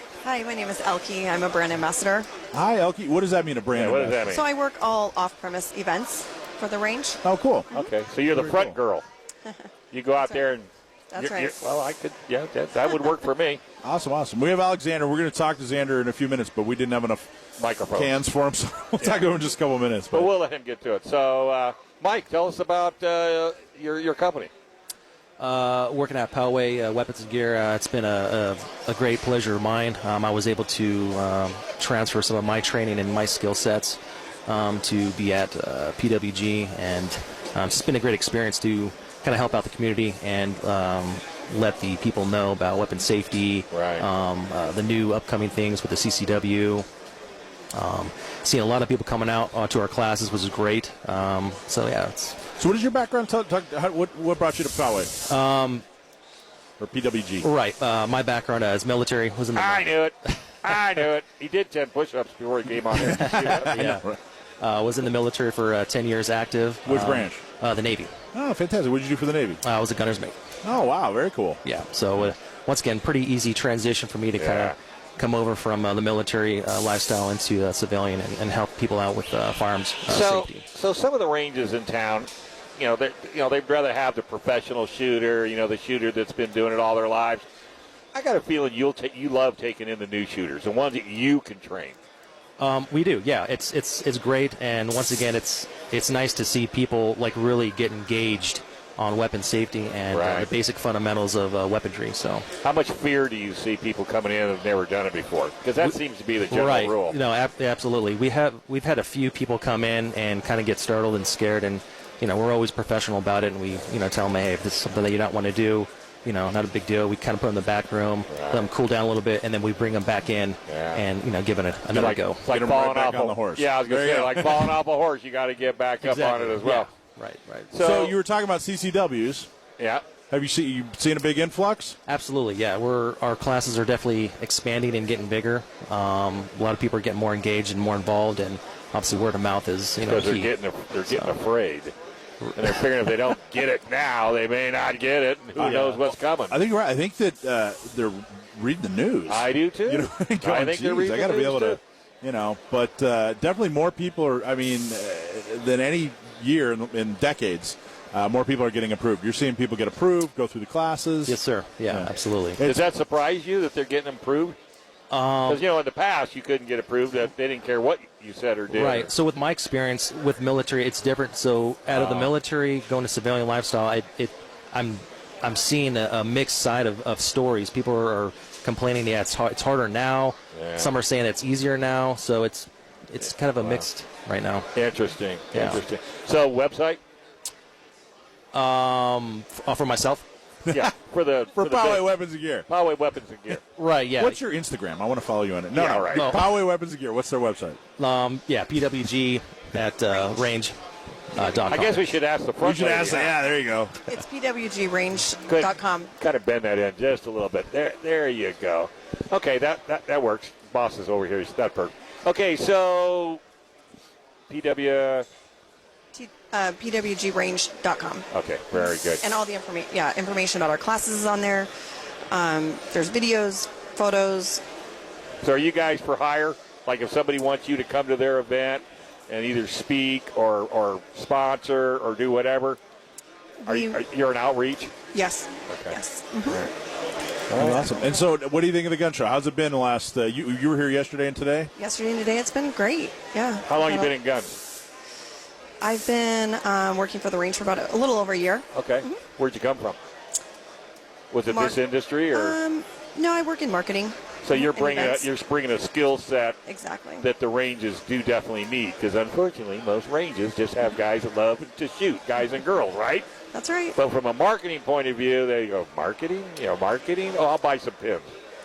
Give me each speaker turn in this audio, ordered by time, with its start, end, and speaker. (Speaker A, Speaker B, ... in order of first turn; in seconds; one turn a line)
Speaker A: 0.2-2.3
Speaker B: 2.5-4.4
Speaker C: 3.7-4.5
Speaker A: 4.3-7.2
Speaker B: 7.2-7.7
Speaker C: 7.7-9.0
Speaker B: 8.3-8.8
Speaker C: 9.9-13.6
Speaker A: 11.1-11.5
Speaker B: 13.8-17.3
Speaker C: 17.6-18.1
Speaker B: 17.9-20.3
Speaker C: 19.0-19.3
Speaker C: 20.1-24.5
Speaker D: 25.4-46.8
Speaker C: 43.7-44.0
Speaker D: 47.7-52.4
Speaker B: 52.6-55.1
Speaker D: 55.3-55.8
Speaker B: 56.8-57.5
Speaker D: 57.4-59.9
Speaker C: 59.5-63.7
Speaker D: 63.0-64.0
Speaker B: 63.2-64.2
Speaker D: 64.6-68.1
Speaker B: 66.8-67.4
Speaker B: 68.3-69.6
Speaker D: 69.6-70.4
Speaker B: 70.6-71.6
Speaker D: 71.6-80.7
Speaker C: 74.4-74.8
Speaker C: 80.1-87.5
Speaker C: 88.1-92.0
Speaker D: 92.6-102.5
Speaker C: 100.1-100.5
Speaker C: 102.6-107.2
Speaker D: 106.5-122.5
Speaker C: 118.3-118.7
Speaker C: 120.7-121.0
Speaker C: 121.9-126.9
Speaker B: 122.5-124.8
Speaker D: 126.0-127.7
Speaker C: 127.7-128.2
Speaker B: 127.8-129.5
Speaker C: 129.8-130.0
Speaker B: 130.3-131.9
Speaker D: 132.1-140.5
Speaker C: 140.0-141.9
Speaker C: 142.6-146.6
Speaker B: 145.6-162.8
Speaker D: 145.6-145.9
Speaker C: 149.3-151.8
Speaker D: 161.2-162.6
Speaker C: 162.6-164.6
Speaker D: 165.1-165.6
Speaker C: 165.5-169.1
Speaker D: 168.7-184.7
Speaker C: 171.9-172.3
Speaker C: 180.5-180.9
Speaker C: 183.6-183.9
Speaker C: 184.7-187.0
Speaker D: 185.5-185.8
Speaker D: 188.5-190.2
Speaker B: 190.7-190.9
Speaker C: 190.7-192.1
Speaker B: 191.5-192.7
Speaker C: 192.7-193.6
Speaker D: 193.8-194.4
Speaker B: 194.1-197.8
Speaker C: 195.7-196.4
Speaker D: 196.1-196.5
Speaker D: 198.0-200.7
Speaker D: 201.3-202.1
Speaker C: 201.5-203.3
Speaker B: 202.6-204.1
Speaker A: 204.1-206.1
Speaker C: 205.5-213.4
Speaker C: 214.5-215.3
Speaker A: 216.1-221.7
Speaker C: 218.3-219.2
Speaker A: 222.3-224.6
Speaker C: 225.4-232.8
Speaker A: 233.6-234.0
Speaker C: 233.7-234.9
Speaker A: 235.1-236.7
Speaker C: 235.7-236.7
Speaker C: 237.5-237.9
Speaker B: 237.5-241.7
Speaker A: 241.8-244.1
Speaker C: 243.7-244.6
Speaker A: 245.8-249.2
Speaker C: 248.7-250.0
Speaker C: 251.3-252.6
Speaker A: 251.5-251.8
Speaker A: 252.3-255.3
Speaker C: 254.4-256.6
Speaker A: 256.7-257.3
Speaker C: 257.2-263.3
Speaker A: 263.5-264.0
Speaker C: 264.0-268.3